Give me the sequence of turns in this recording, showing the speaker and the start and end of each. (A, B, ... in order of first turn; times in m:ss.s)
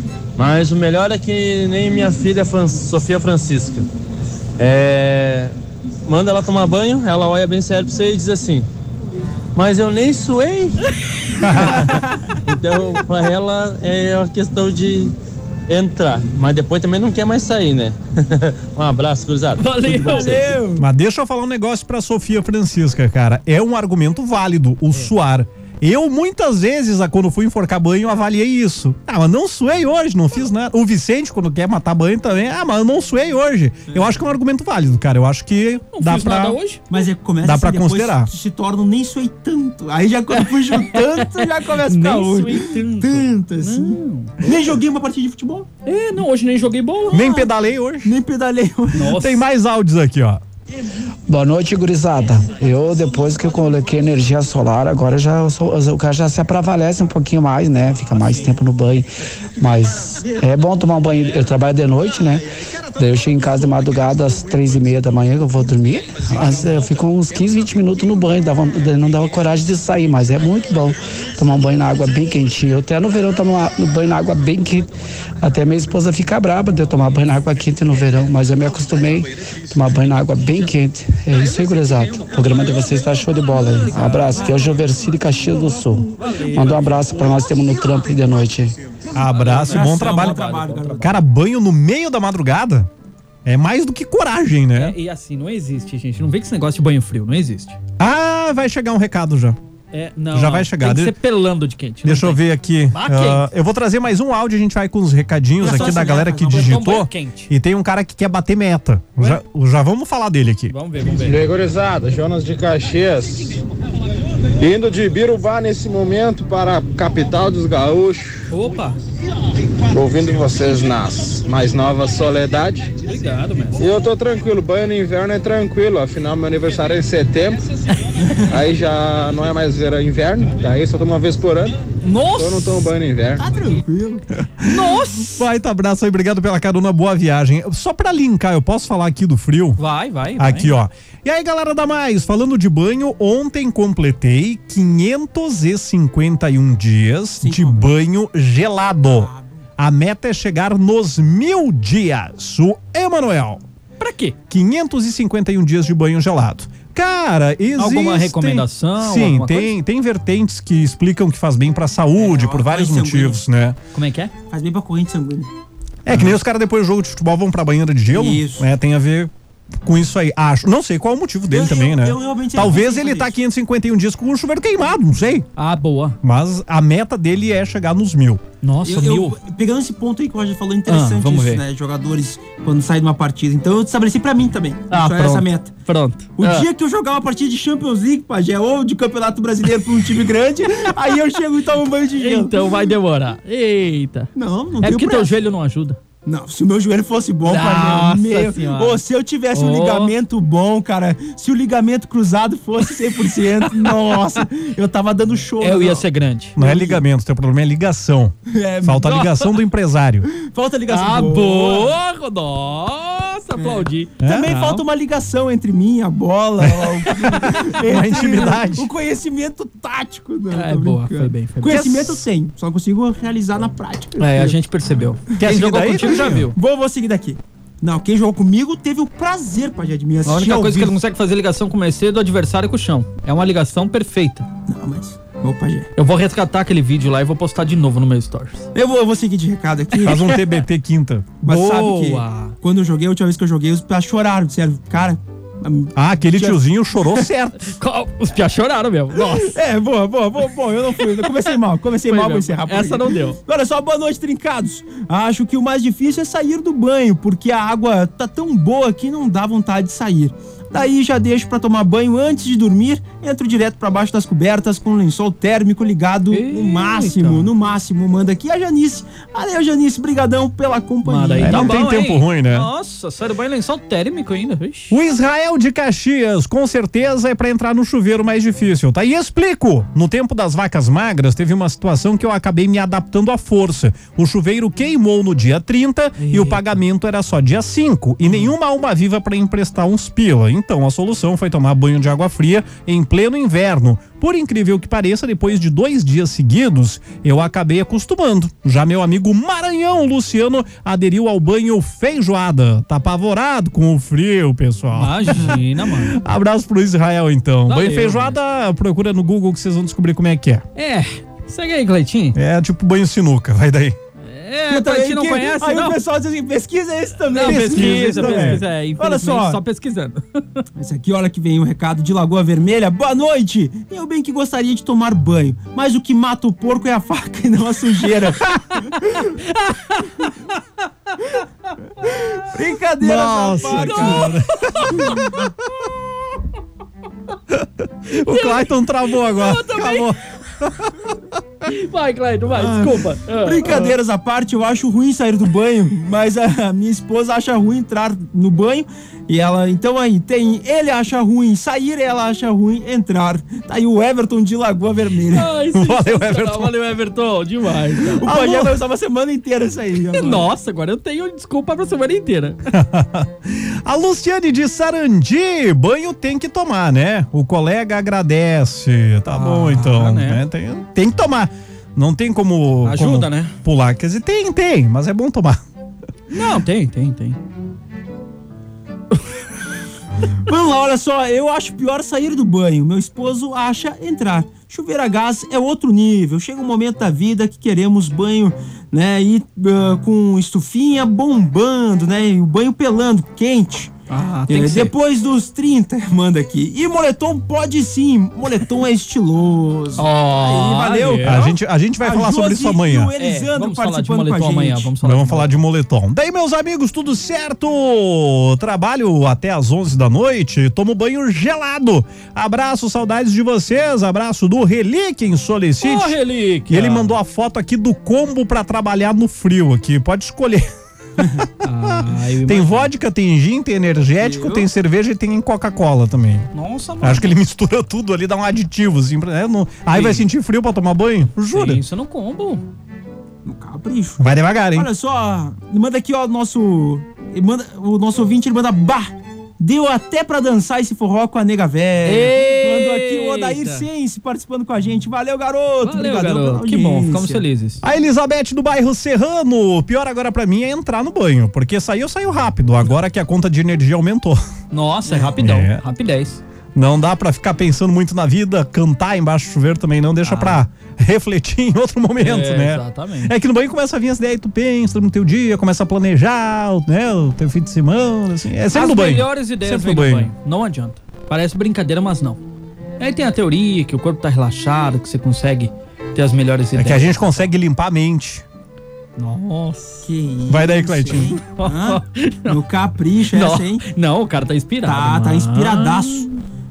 0:00.4-0:03.9 A
0:04.6-0:05.5 A
0:06.1-0:08.6 A
0:09.5-0:10.8 A
0:11.4-0:11.9 B
0:11.5-0:11.8 C
0:11.6-0:11.9 A
0:11.7-0:12.3 D
0:12.5-0:15.1 A
0:15.7-0:20.2 A
0:19.6-0:20.6 C
0:19.9-0:20.8 D
0:20.8-0:36.6 B
0:33.9-0:34.1 D
0:35.9-0:37.0 C
0:36.9-0:45.7 D
0:37.4-0:38.3 B
0:40.4-0:44.6 C
0:45.8-0:47.4 C
0:47.1-0:48.1 B
0:48.0-0:49.0 D
0:48.9-0:49.4 C
0:49.2-0:50.4 B
0:51.3-1:02.4 E
1:03.0-1:14.9 E
1:15.4-1:28.7 E
1:24.0-1:24.8 D
1:24.0-1:24.6 C
1:26.2-1:26.8 C
1:29.1-1:30.4 B
1:29.2-1:31.1 C
1:29.7-1:31.1 D
1:31.0-1:32.9 B
1:33.4-1:35.0 B
1:34.7-1:37.8 C
1:38.0-1:39.6 B
1:39.9-1:43.5 C
1:40.3-1:41.1 B
1:42.0-1:50.7 B
1:45.6-1:46.8 D
1:46.4-1:47.5 C
1:50.7-1:51.4 C
1:51.1-1:53.5 F
1:54.6-1:58.5 F
1:58.5-1:59.0 C
1:59.9-2:02.9 F
2:03.1-2:03.8 C
2:03.8-2:07.6 F
2:08.2-2:08.5 D
2:08.5-2:11.8 F
2:12.0-2:12.8 C
2:12.4-2:13.4 F
2:13.4-2:14.2 D
2:14.6-2:15.4 C
2:14.6-2:19.8 B
2:19.8-2:20.8 C
2:20.4-2:33.6 B
2:27.4-2:27.9 D
2:29.1-2:29.5 D
2:34.0-2:34.4 C
2:34.5-2:43.8 B
2:37.8-2:39.8 C
2:42.2-2:43.4 D
2:43.9-2:44.3 C
2:44.5-2:45.5 D
2:46.0-2:49.3 B
2:48.1-2:48.7 D
2:49.8-2:55.5 B
2:51.5-2:53.3 D
2:55.6-2:56.2 C
2:56.2-2:58.4 B
2:58.6-2:59.4 C
2:58.8-3:05.7 D
3:00.9-3:01.6 C
3:04.9-3:06.7 C
3:06.4-3:12.6 D
3:12.2-3:16.0 C
3:14.3-3:15.3 D
3:16.2-3:26.0 D
3:17.4-3:19.0 C
3:19.5-3:20.1 C
3:25.6-3:26.6 C
3:26.6-3:30.3 B
3:26.6-3:27.0 D
3:28.5-3:29.1 D
3:29.0-3:29.5 C
3:30.3-3:31.9 D
3:30.9-3:34.8 C
3:33.5-3:44.5 D
3:34.2-3:34.5 B
3:37.3-3:38.9 B
3:40.5-3:41.8 C
3:41.7-3:42.2 B
3:44.2-3:46.5 C
3:45.4-3:46.4 B
3:46.0-3:50.9 D
3:50.2-3:54.5 C
3:54.7-3:55.9 D
3:56.0-3:58.7 C
3:58.7-4:00.3 D
4:00.0-4:01.5 B
4:01.4-4:06.6 D
4:01.4-4:02.5 C
4:06.0-4:07.7 B
4:07.6-4:09.5 C
4:09.2-4:31.8 D
4:12.1-4:13.4 C
4:26.3-4:27.5 C
4:31.0-4:35.0 C
4:31.4-4:32.7 B
4:34.9-5:05.6 B
4:46.2-4:46.6 C
4:48.2-4:48.5 C
5:04.9-5:06.2 C
5:06.1-5:10.6 B
5:07.7-5:08.4 C
5:10.7-5:12.4 C
5:12.3-5:14.0 B
5:14.2-5:16.0 C
5:14.7-5:19.5 D
5:17.3-5:20.6 C
5:17.4-5:19.2 B
5:20.8-5:29.3 D
5:29.5-5:30.3 C
5:32.0-5:34.3 D
5:33.0-5:35.4 B
5:33.5-5:35.2 C
5:37.5-5:40.9 B
5:38.1-5:40.1 C
5:41.7-5:44.0 C
5:42.6-5:55.5 D
5:55.3-5:58.7 C
5:55.7-5:56.7 B
5:58.2-6:00.5 D
5:58.3-5:58.6 B
6:00.1-6:02.6 C
6:02.7-6:15.6 B
6:09.3-6:10.4 C
6:12.8-6:13.5 C
6:16.3-6:17.4 C
6:20.4-6:33.9 D
6:34.1-6:34.9 C
6:34.5-6:41.3 D
6:40.0-6:41.5 C
6:41.2-6:43.1 B
6:42.0-6:44.9 D
6:43.2-6:45.6 C
6:45.0-6:56.2 B
6:55.8-6:57.1 C
6:56.7-7:00.7 B
7:01.6-7:02.9 C
7:01.8-7:06.5 B
7:04.2-7:04.6 D
7:06.5-7:07.4 C
7:07.0-7:11.8 B
7:09.9-7:10.3 C
7:11.5-7:12.6 C
7:13.4-7:27.4 D
7:14.2-7:14.9 B
7:22.0-7:23.8 C
7:25.8-7:27.8 C
7:27.8-7:34.4 B
7:34.7-7:36.4 C
7:35.1-7:35.3 D
7:35.4-7:35.8 B
7:36.7-7:50.3 B
7:40.2-7:40.6 C
7:42.2-7:43.3 C
7:48.7-7:52.4 C
7:53.0-7:57.5 C
7:56.7-7:58.4 B
7:59.2-8:00.1 C
8:00.0-8:03.8 D
8:00.5-8:01.4 B
8:01.5-8:02.6 C
8:03.3-8:06.3 C
8:04.8-8:06.3 D